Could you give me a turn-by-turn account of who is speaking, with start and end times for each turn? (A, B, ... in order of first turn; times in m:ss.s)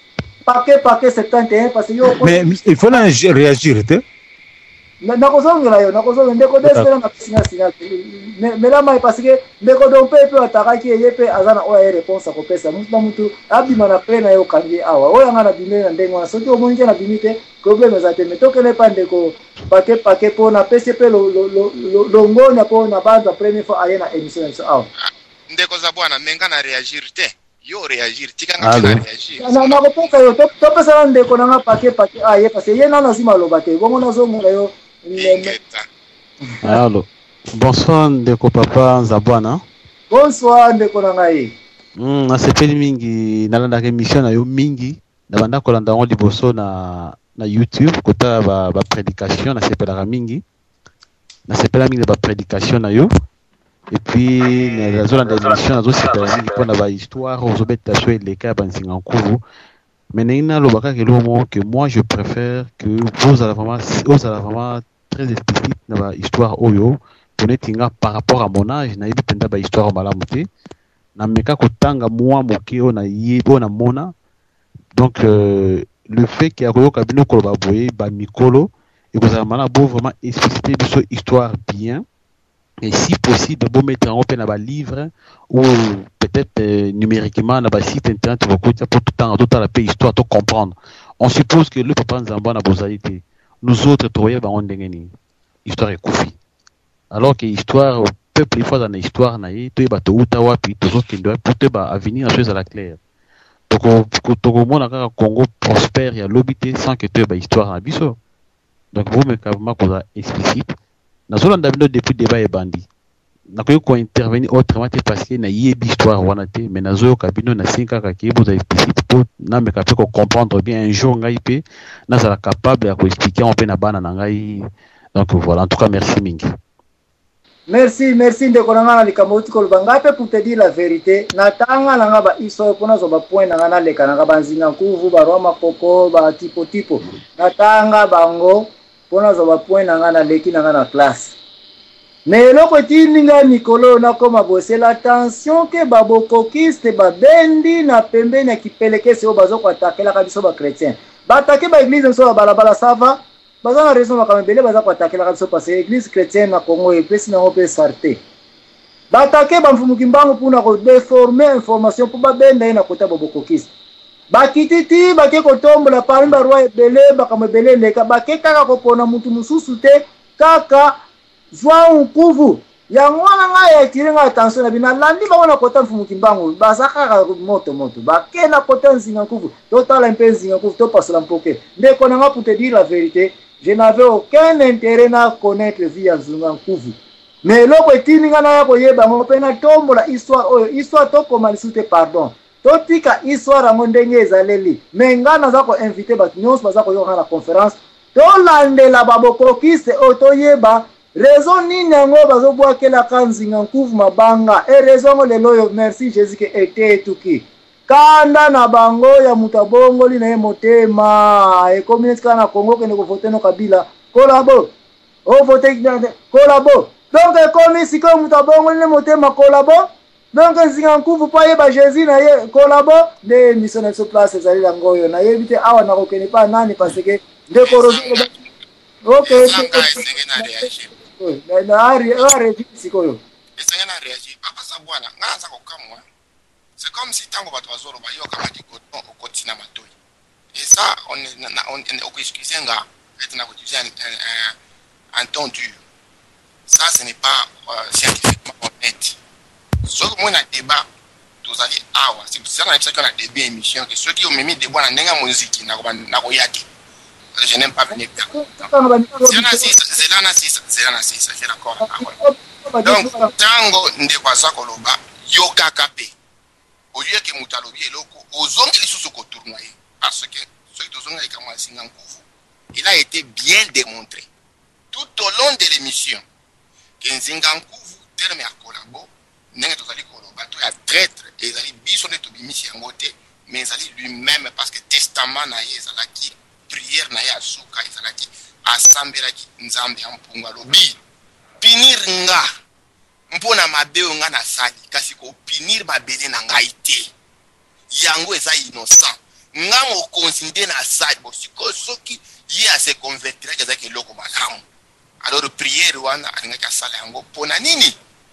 0:00.5-0:02.5 A
0:02.1-0:04.0 B
0:05.0-0:24.9 A
0:06.6-0:06.9 B
0:25.0-0:29.8 C
0:28.6-0:29.0 D
0:29.4-0:35.5 A
0:35.2-0:35.9 C
0:36.6-0:39.6 D
0:40.1-0:41.5 A
0:42.0-0:50.4 D
0:51.5-0:53.1 D
0:53.9-0:59.4 D
1:00.1-1:10.5 D
1:11.2-1:14.1 D
1:15.0-1:22.0 D
1:22.8-1:35.1 D
1:35.6-1:36.4 D
1:37.1-1:43.0 D
1:43.7-1:48.2 D
1:48.9-1:50.8 D
1:51.3-1:52.9 D
1:53.5-2:06.5 D
2:07.7-2:21.3 A
2:22.3-2:38.2 A
2:39.1-2:43.7 A
2:44.3-2:51.0 A
2:51.5-3:34.7 A
3:35.3-3:48.3 A
3:47.6-3:48.4 C
3:49.0-3:53.2 A
3:49.2-3:50.9 C
3:53.6-3:56.0 C
3:56.8-3:59.9 C
4:00.6-4:04.6 C
4:05.1-4:05.8 C
4:06.7-4:09.2 C
4:09.9-4:10.9 C
4:11.4-4:16.6 C
4:17.4-4:18.3 C
4:18.3-4:19.7 A
4:19.3-4:22.1 C
4:21.8-4:23.3 A
4:22.8-4:26.1 C
4:26.9-4:32.2 C
4:32.7-4:34.3 C
4:34.9-4:36.2 C
4:37.0-4:51.0 C
4:51.6-4:52.5 C
4:53.3-4:57.1 C
4:57.9-5:04.6 C
5:05.2-5:08.0 C